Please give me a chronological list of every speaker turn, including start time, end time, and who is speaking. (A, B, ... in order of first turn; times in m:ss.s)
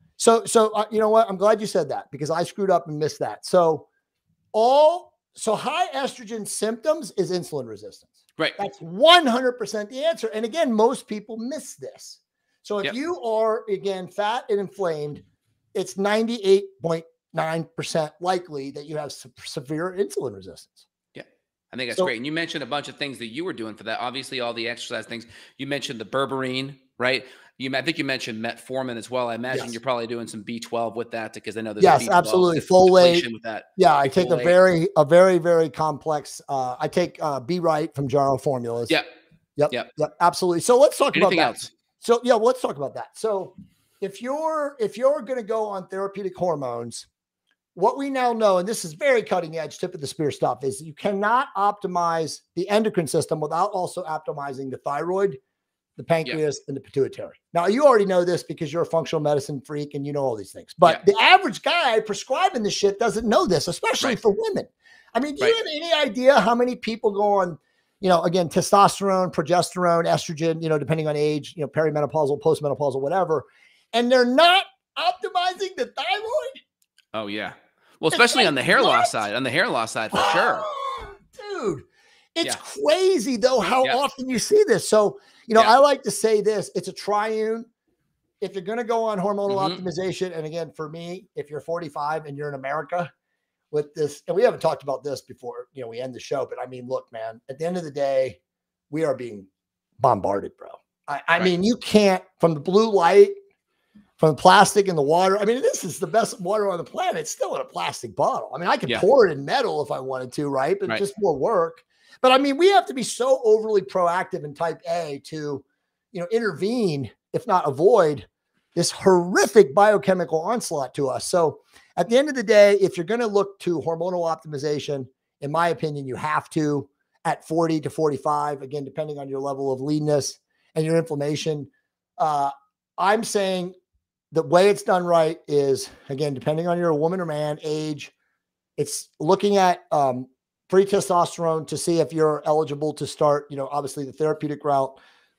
0:00.2-0:03.9 A
0:04.5-0:15.2 A
0:15.7-0:20.8 A
0:21.1-0:34.5 B
0:29.5-0:29.8 A
0:31.8-0:39.0 A
0:39.6-0:47.1 A
0:41.1-0:41.7 B
0:47.7-0:55.4 A
0:56.0-1:16.6 A
1:17.1-1:20.7 B
1:18.1-1:19.2 A
1:20.1-1:27.7 A
1:28.4-1:33.1 A
1:29.5-1:29.8 B
1:33.7-1:38.4 A
1:38.9-1:39.5 A
1:40.0-1:43.3 A
1:44.2-2:13.7 A
2:14.3-2:18.1 A
2:18.8-2:25.0 A